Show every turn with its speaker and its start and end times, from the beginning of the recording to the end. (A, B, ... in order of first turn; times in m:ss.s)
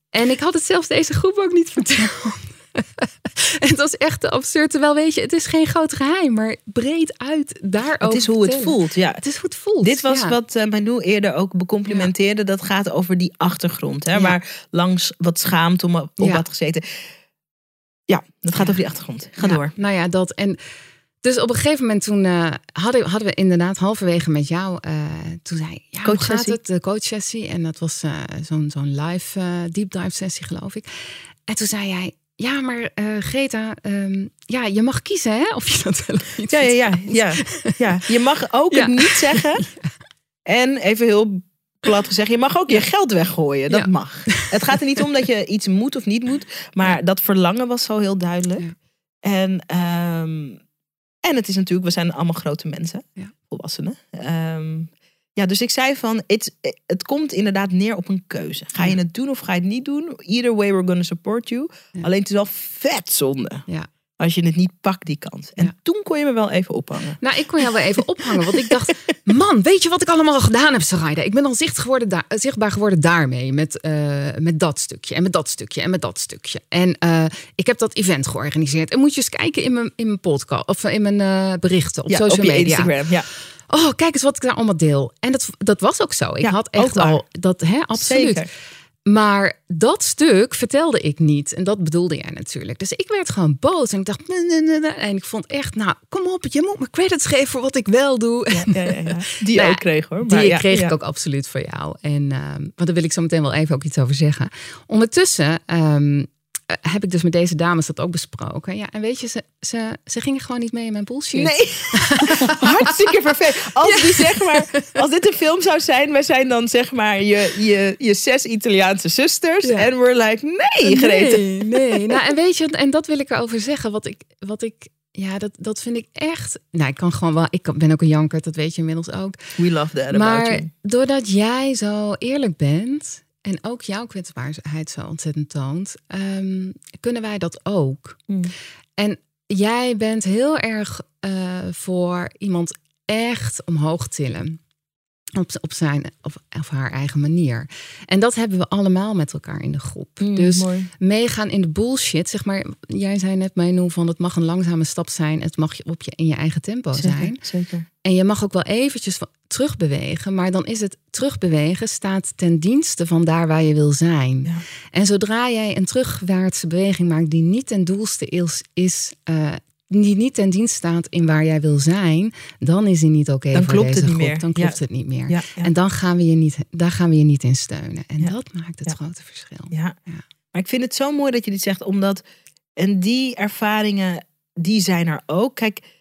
0:00.1-0:10.3 A
0:08.0-0:09.2 B
0:09.8-0:16.8 B
0:18.1-0:19.7 B
0:19.4-0:20.6 A
0:21.2-0:30.9 A
0:26.0-0:26.6 B
0:31.5-0:37.8 A
0:36.5-0:39.6 B
0:38.7-0:39.8 A
0:40.5-0:48.6 B
0:43.7-0:44.5 A
0:49.2-0:50.6 B
0:51.2-1:03.6 B
1:04.2-1:07.2 B
1:07.2-1:22.9 A
1:08.3-1:08.7 B
1:22.1-1:23.2 B
1:23.7-1:28.4 A
1:26.4-1:27.2 B
1:28.0-1:28.5 B
1:29.0-1:53.2 A
1:38.5-1:40.9 B
1:51.3-2:02.2 B
1:53.8-1:55.0 A
1:59.6-1:59.9 A
2:00.8-2:09.4 A
2:09.6-2:10.7 B
2:10.1-2:18.3 A
2:19.0-2:24.6 A
2:25.4-2:37.4 A
2:30.2-2:30.9 B
2:37.0-2:37.8 B
2:38.0-3:00.2 A
2:53.5-2:55.7 B
3:00.5-3:02.2 B
3:02.8-3:05.8 B